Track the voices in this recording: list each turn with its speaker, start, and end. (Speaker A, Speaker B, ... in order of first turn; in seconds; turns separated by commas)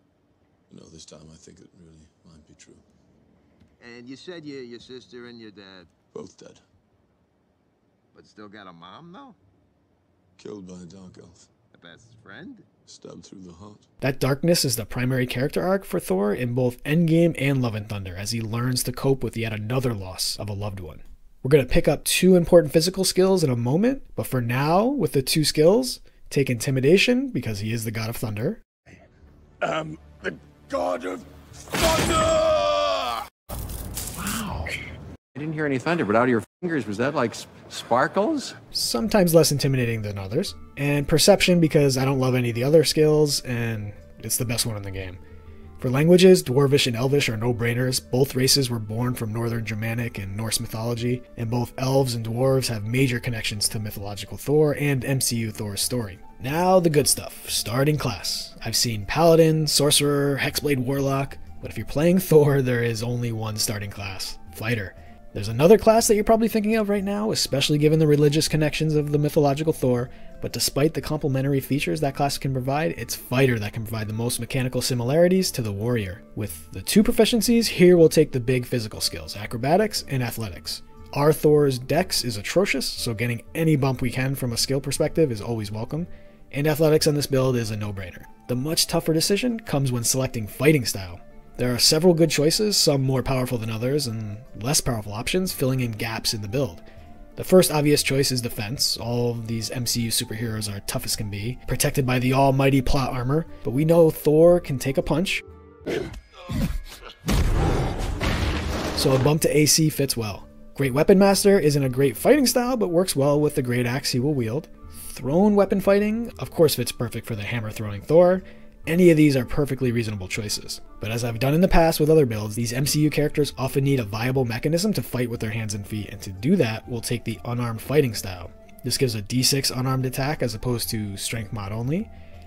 Speaker A: 0.7-2.8, Speaker B: 3.8-5.9, Speaker A: 6.1-6.6, Speaker B: 8.1-9.4, Speaker A: 10.4-11.4, Speaker B: 11.7-12.7, Speaker A: 12.9-13.8, Speaker C: 14.0-28.6, Speaker A: 29.7-31.2, Speaker A: 31.7-32.9, Speaker D: 35.3-38.5, Speaker C: 38.7-45.2, Speaker C: 45.8-96.8, Speaker C: 97.3-105.4, Speaker C: 109.0-132.1